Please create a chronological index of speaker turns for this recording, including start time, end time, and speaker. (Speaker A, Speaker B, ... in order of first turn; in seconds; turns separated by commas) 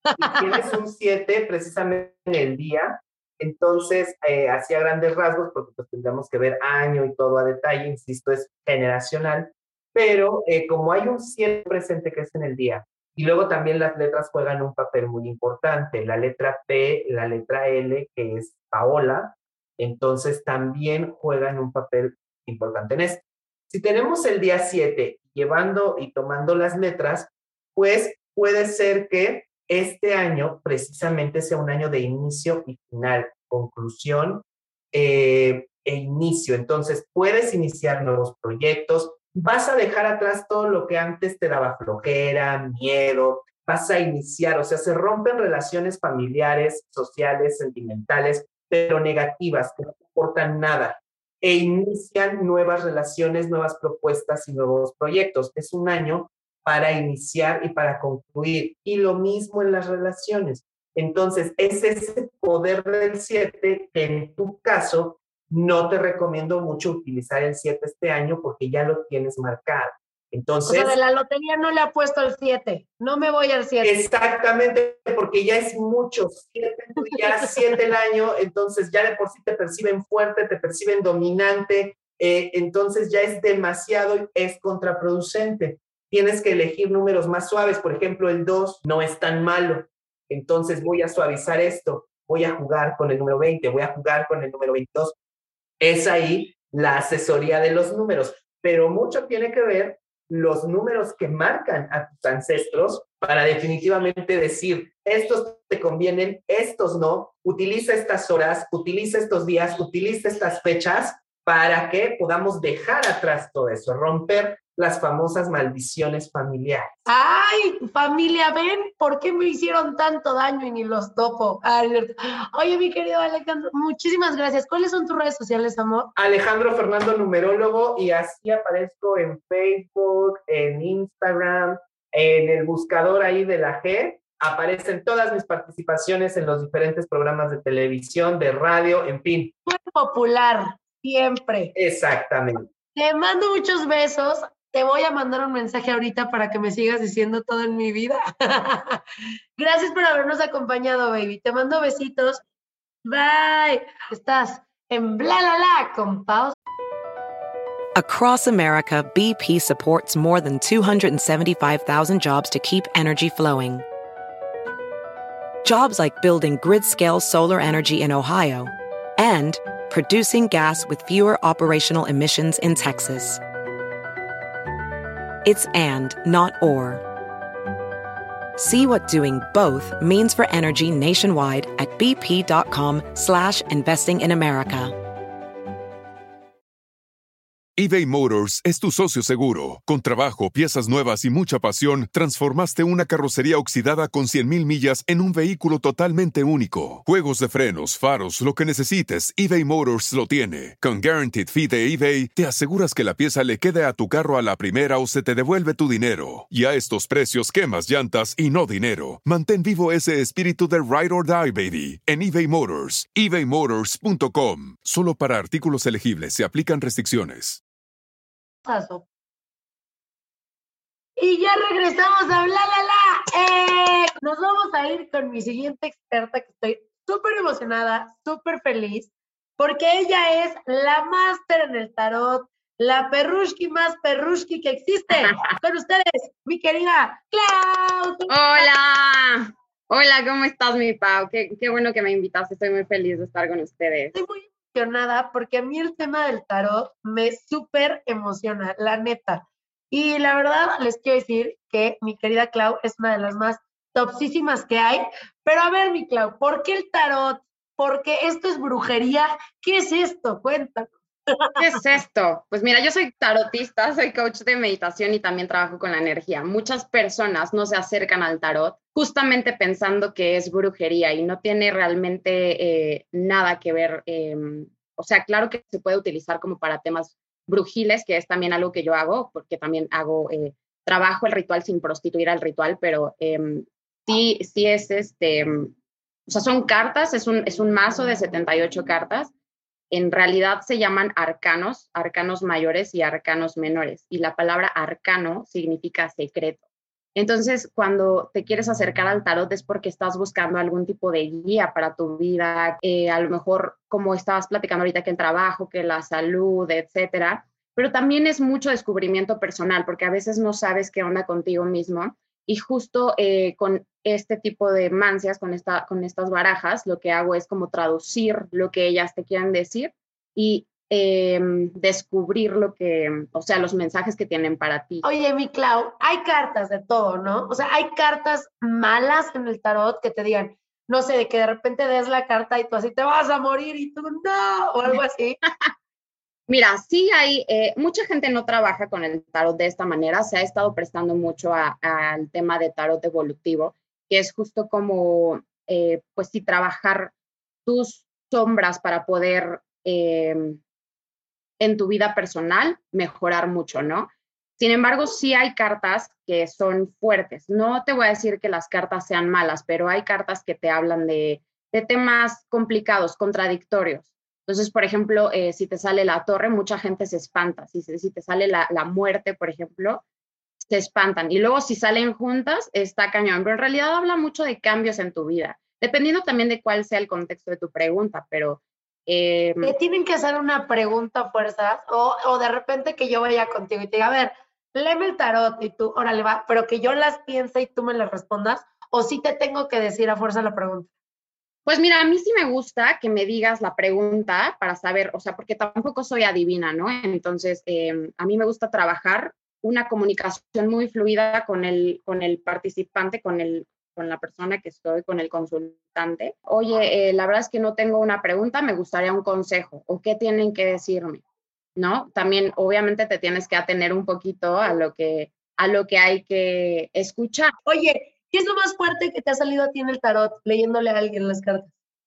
Speaker A: 0.2-71.0, Speaker B: 0.2-0.7, Speaker B: 70.7-73.9, Speaker A: 73.8-95.2, Speaker A: 95.8-116.9, Speaker B: 117.1-126.1, Speaker A: 126.2-139.5, Speaker B: 139.7-141.7, Speaker A: 141.7-142.7, Speaker B: 142.9-149.0, Speaker B: 149.6-152.4, Speaker B: 153.0-156.5, Speaker C: 157.9-163.8, Speaker C: 165.6-173.4, Speaker C: 175.4-177.0, Speaker C: 178.6-184.9, Speaker D: 187.8-217.6, Speaker B: 218.6-219.0, Speaker B: 221.2-238.7, Speaker E: 235.2-235.5, Speaker E: 238.3-244.2, Speaker B: 244.1-261.7, Speaker E: 261.6-285.7, Speaker E: 286.3-289.3, Speaker E: 289.9-296.6, Speaker E: 297.1-325.0, Speaker B: 325.0-335.4, Speaker E: 336.5-347.1, Speaker E: 347.6-350.6, Speaker E: 351.6-370.0, Speaker E: 370.6-379.7, Speaker B: 379.6-390.9, Speaker E: 391.6-411.2, Speaker E: 411.8-417.5, Speaker B: 417.6-421.7